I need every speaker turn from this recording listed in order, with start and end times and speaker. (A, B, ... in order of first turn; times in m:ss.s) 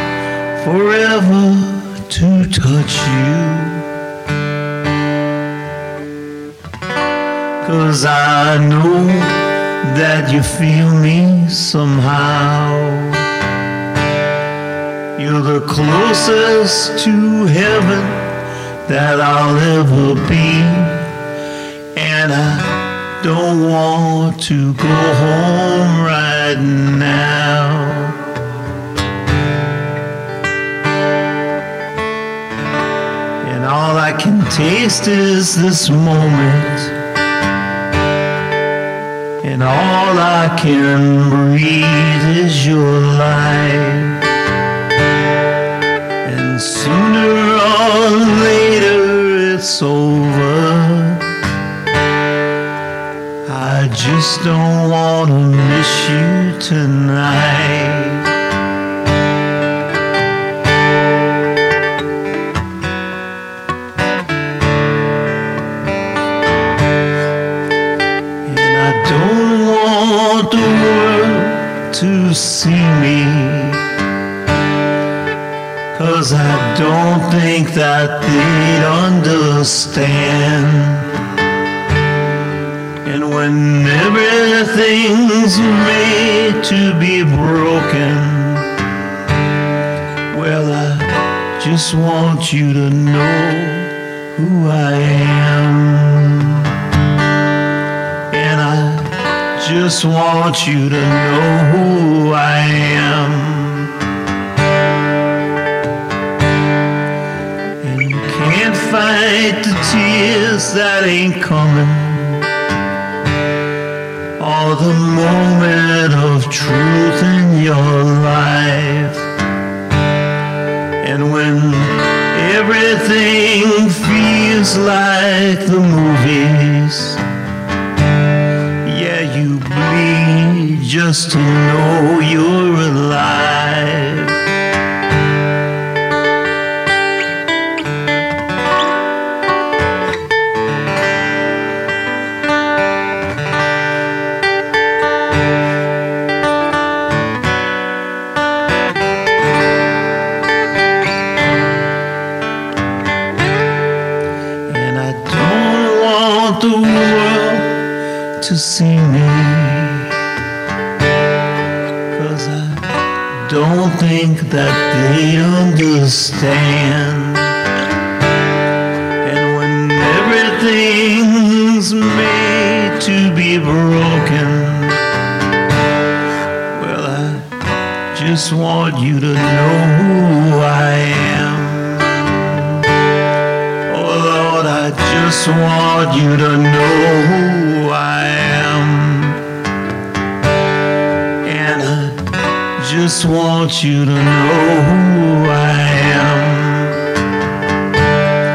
0:00.5-0:03.9 A
0:07.6-0:13.3 A
0:15.2-0:18.3 A
0:18.8-0:21.1 A
0:21.9-0:28.2 A
0:33.4-0:37.0 A
0:39.4-0:44.3 A
0:46.2-0:51.3 A
0:53.4-0:58.3 A
1:08.4-1:13.9 A
1:15.9-1:21.3 A
1:23.0-1:28.8 A
1:30.3-1:36.9 A
1:38.3-1:44.1 A
1:47.8-1:52.5 A
1:54.4-1:59.3 A
2:01.0-2:07.2 A
2:08.8-2:14.4 A
2:34.6-2:40.2 A
2:42.1-2:47.6 A
2:49.2-2:55.0 A
2:56.7-2:57.6 A
2:58.1-3:02.9 A
3:03.9-3:09.4 A
3:11.4-3:17.1 A